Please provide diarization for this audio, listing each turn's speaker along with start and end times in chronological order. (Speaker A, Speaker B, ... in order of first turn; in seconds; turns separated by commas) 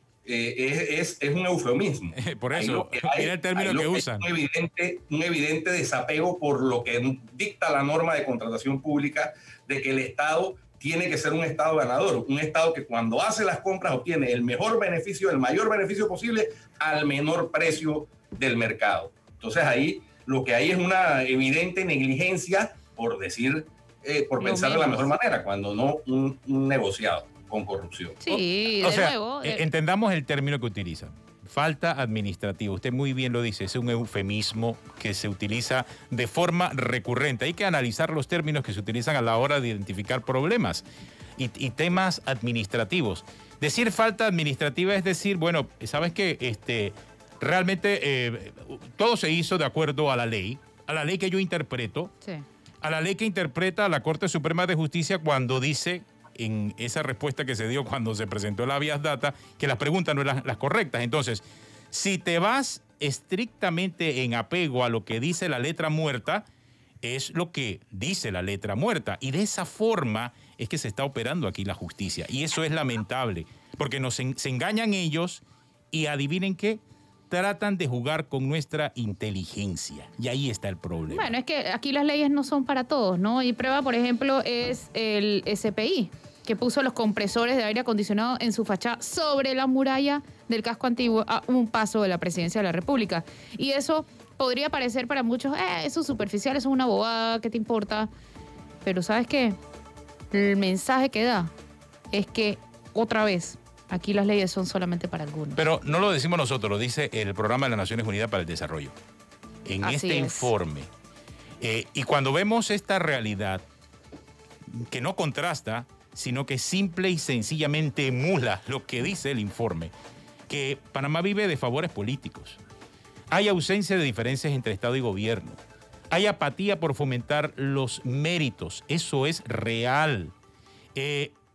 Speaker A: 0.2-28.2, Speaker B: 2.1-4.3, Speaker C: 24.4-25.1, Speaker C: 28.2-29.6, Speaker B: 28.3-40.8, Speaker B: 41.4-52.1, Speaker B: 52.8-66.5, Speaker B: 67.0-81.3, Speaker C: 81.1-98.1, Speaker C: 98.8-99.6, Speaker C: 100.3-101.5, Speaker C: 102.1-105.6, Speaker B: 105.5-108.9, Speaker B: 109.7-110.9, Speaker C: 109.8-110.5, Speaker B: 111.6-113.6, Speaker B: 114.7-119.9, Speaker B: 120.5-122.6, Speaker B: 123.3-125.6, Speaker B: 126.1-130.3, Speaker B: 130.9-131.3